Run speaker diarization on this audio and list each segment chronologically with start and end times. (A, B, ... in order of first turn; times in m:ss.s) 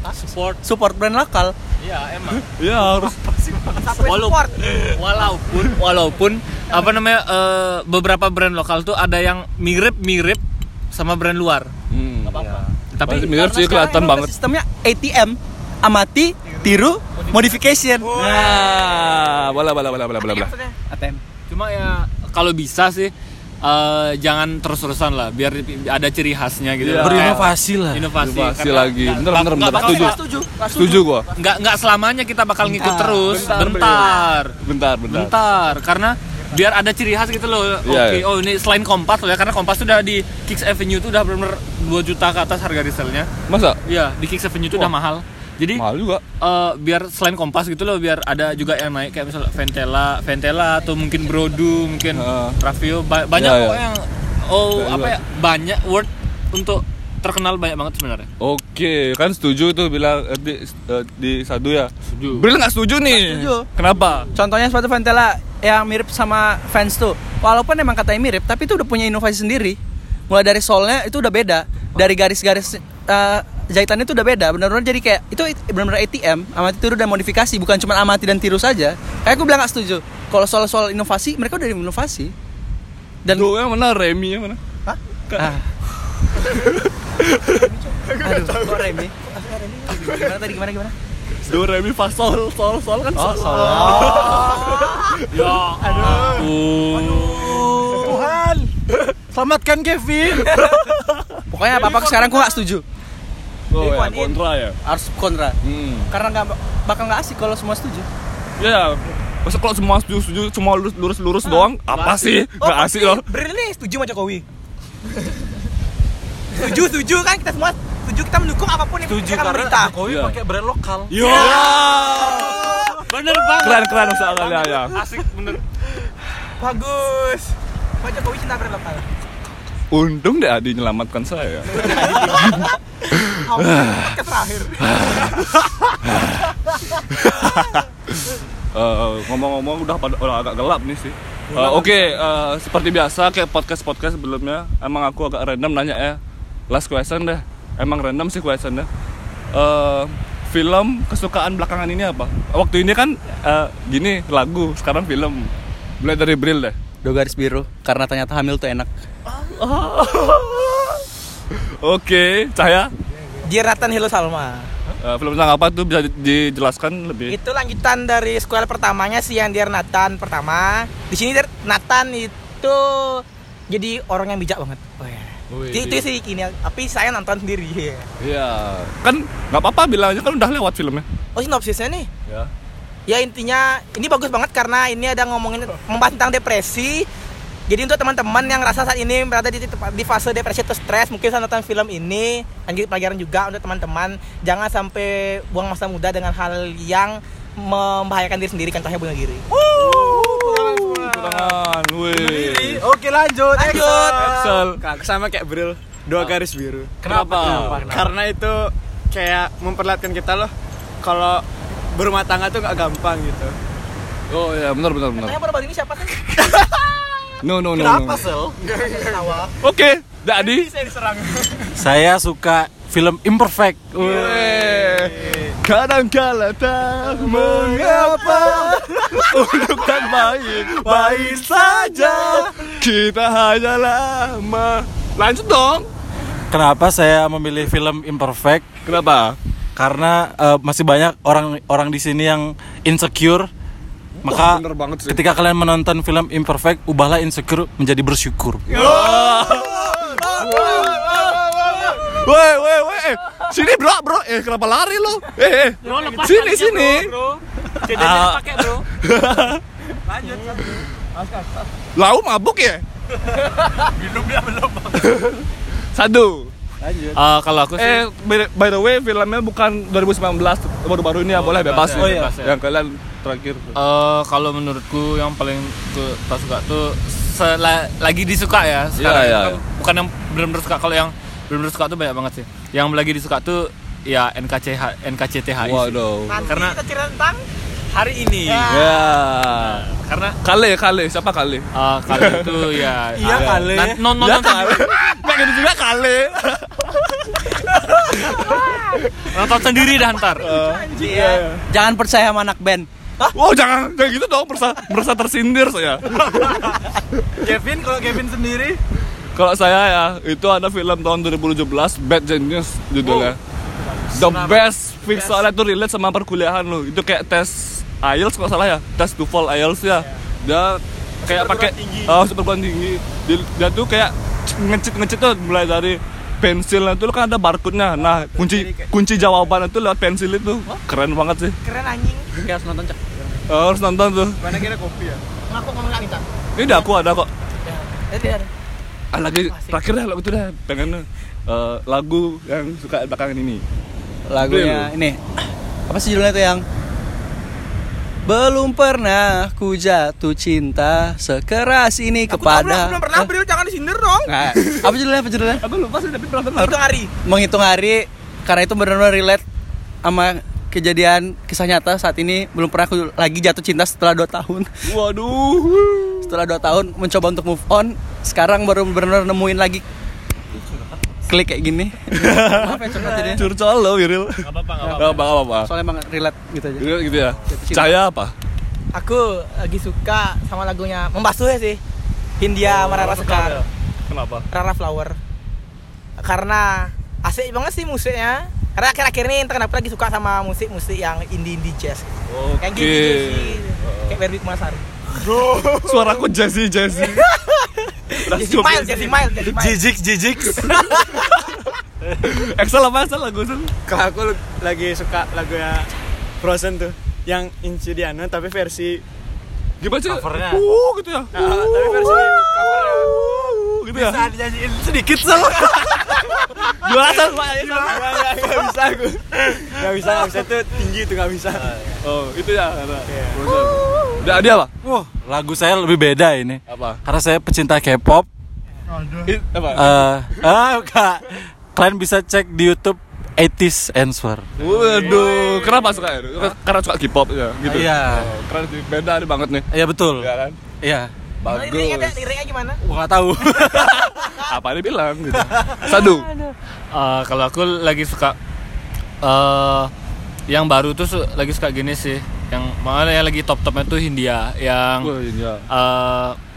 0:00.2-0:00.6 A
0:00.6-0:01.6 B
0:01.8-0:02.5 A
0:02.4-0:03.9 C
0:03.7-0:04.8 D
0:04.0-0:11.7 A
0:11.9-0:12.4 C
0:12.3-0:13.3 A
0:12.4-0:12.6 E
0:13.0-0:14.3 C
0:13.1-0:18.1 B
0:18.0-0:19.0 D
0:18.2-0:18.8 E
0:18.2-0:20.5 C
0:20.2-0:20.8 D
0:20.9-0:21.2 B
0:21.5-0:30.2 A
0:26.8-0:27.5 C
0:27.0-0:28.1 E
0:28.2-0:31.3 C
0:29.6-0:31.1 B
0:31.3-0:34.6 A
0:32.6-0:33.5 E
0:33.2-0:35.4 C
0:33.7-0:34.2 D
0:35.1-0:43.3 A
0:37.8-0:38.3 C
0:43.5-0:43.8 C
0:43.8-0:45.8 A
0:45.8-0:46.2 C
0:46.4-0:58.3 A
0:51.0-0:51.3 D
0:52.1-0:52.6 C
0:53.4-0:53.8 C
0:54.8-0:55.2 C
0:58.4-1:04.3 C
1:02.1-1:02.5 A
1:03.1-1:03.7 B
1:04.3-1:09.8 B
1:10.3-1:22.3 B
1:23.2-1:23.5 B
1:23.3-1:24.6 C
1:25.4-1:25.7 B
1:26.5-1:27.6 C
1:27.4-1:28.6 D
1:28.2-1:28.8 F
1:28.2-1:29.1 B
1:29.2-1:30.4 D
1:29.9-1:30.9 B
1:31.4-1:35.6 C
1:33.2-1:34.4 E
1:33.7-1:35.2 D
1:34.0-1:38.0 A
1:35.8-1:36.5 D
1:36.0-1:36.5 E
1:37.0-1:38.0 D
1:37.5-1:38.7 E
1:39.3-1:40.7 E
1:40.5-1:41.2 C
1:41.5-1:42.8 B
1:41.9-1:42.4 D
1:43.7-1:44.8 C
1:43.7-1:44.4 D
1:44.8-1:45.6 B
1:45.6-1:46.1 C
1:46.1-1:48.1 B
1:48.6-1:53.3 C
1:51.4-1:54.4 D
1:51.9-1:52.4 A
1:56.5-2:00.0 D
1:59.0-2:01.3 E
2:00.0-2:00.4 C
2:01.1-2:01.7 A
2:01.2-2:03.0 D
2:01.2-2:02.9 C
2:03.0-2:05.6 A
2:03.6-2:05.0 C
2:04.1-2:04.8 D
2:06.6-2:09.0 D
2:09.9-2:14.3 C
2:11.8-2:12.7 D
2:11.9-2:12.6 A
2:13.3-2:15.3 D
2:14.8-2:17.9 C
2:18.7-2:28.9 C
2:29.5-2:36.8 C
2:37.0-2:38.9 B
2:39.5-2:42.9 C
2:43.4-2:44.7 D
2:45.0-2:47.4 C
2:47.3-2:58.1 D
2:55.5-2:56.1 C
2:58.2-3:01.0 C
3:01.4-3:02.1 D
3:03.1-3:07.1 D
3:07.7-3:19.5 D
3:19.5-3:21.6 E
3:19.7-3:22.8 C
3:22.1-3:24.7 E
3:23.6-3:24.1 D
3:23.6-3:33.6 F
3:23.9-3:24.8 C
3:27.0-3:27.9 C
3:27.0-3:28.1 E
3:34.3-3:35.4 C
3:35.2-3:37.1 D
3:37.4-3:38.3 C
3:37.7-3:38.6 E
3:38.7-3:39.5 D
3:38.8-3:39.3 F
3:39.6-3:40.7 C
3:40.3-3:41.7 D
3:41.7-3:45.3 E
3:44.0-3:55.9 C
3:44.1-3:45.5 F
3:47.2-3:52.7 E
3:56.5-3:58.7 E
3:58.9-3:59.4 C
3:59.8-4:03.5 E
4:04.2-4:05.3 C
4:04.2-4:09.4 E
4:08.7-4:17.1 C
4:08.9-4:09.6 D
4:10.2-4:11.2 D
4:10.2-4:11.1 E
4:15.8-4:18.8 A
4:15.9-4:16.4 E
4:17.8-4:19.6 C
4:20.1-4:20.8 E
4:22.0-4:22.8 C
4:23.2-4:25.1 E
4:25.0-4:26.5 C
4:26.8-4:27.2 E
4:27.2-4:28.0 A
4:27.8-4:33.7 C
4:31.3-4:32.6 A
4:31.9-4:32.4 E
4:33.8-4:46.8 A
4:39.0-4:39.6 C
4:45.6-4:46.5 C
4:46.3-4:47.4 D
4:47.9-4:48.8 A
4:48.4-4:49.2 D
4:48.7-4:49.8 C
4:49.5-4:50.4 A
4:50.4-4:57.4 C
4:51.7-4:54.9 A
4:53.2-4:54.0 E
4:58.0-4:59.4 C
4:58.2-4:59.0 D
4:59.3-5:00.5 A
5:00.2-5:01.5 D
5:00.4-5:01.6 C
5:01.0-5:02.9 B
5:03.3-5:06.6 C
5:06.3-5:06.8 E
5:07.4-5:08.8 E
5:09.4-5:13.4 C
5:13.0-5:13.3 E
5:13.9-5:15.4 E
5:14.1-5:31.6 C
5:19.9-5:20.2 F
5:21.2-5:22.2 F
5:28.0-5:29.5 F
5:31.6-5:32.3 D
5:33.5-5:34.6 C
5:34.4-5:35.2 F
5:35.5-5:36.9 D
5:36.6-5:37.3 C
5:37.6-5:38.5 D
5:39.1-5:43.6 C
5:39.5-5:39.8 D
5:44.3-5:46.6 B
5:44.4-5:44.9 C
5:48.3-5:53.3 B
5:52.3-5:54.3 D
5:54.3-5:55.6 B
5:55.6-5:56.8 C
5:56.6-5:57.1 D
5:57.2-5:59.4 B
6:00.0-6:04.7 B
6:04.9-6:06.4 C
6:06.2-6:09.8 B
6:11.2-6:13.4 B
6:12.1-6:15.7 C
6:12.5-6:13.4 E
6:14.4-6:15.3 A
6:14.8-6:16.9 B
6:16.8-6:18.3 C
6:17.4-6:18.0 B
6:18.9-6:21.8 D
6:22.4-6:23.6 D
6:22.6-6:24.5 C
6:24.5-6:25.2 D
6:26.2-6:32.1 D
6:32.3-6:34.2 C
6:32.6-6:34.8 D
6:35.2-6:36.1 F
6:35.8-6:37.3 C
6:37.0-6:39.8 D
6:38.2-6:39.2 C
6:39.4-6:41.2 E
6:40.6-6:41.6 C
6:42.2-6:43.7 C
6:43.9-6:45.9 F
6:46.4-6:49.0 F
6:49.8-6:54.4 C
6:50.1-6:50.6 E
6:51.3-6:53.2 F
6:53.9-6:56.3 E
6:55.6-6:58.2 C
6:57.6-6:58.0 E
6:57.8-7:01.8 F
7:02.0-7:04.7 C
7:03.1-7:03.4 F
7:04.8-7:08.3 E
7:06.7-7:07.0 C
7:08.9-7:15.4 E
7:09.2-7:10.4 C
7:14.6-7:20.6 C
7:14.6-7:15.4 A
7:17.6-7:18.3 E
7:19.7-7:21.1 E
7:21.4-7:22.3 C
7:21.4-7:22.8 D
7:22.8-7:24.2 E
7:23.6-7:26.3 C
7:25.3-7:26.5 E
7:26.9-7:28.4 A
7:29.2-7:29.9 A
7:30.5-7:35.1 A
7:35.0-7:35.6 C
7:35.7-7:36.4 A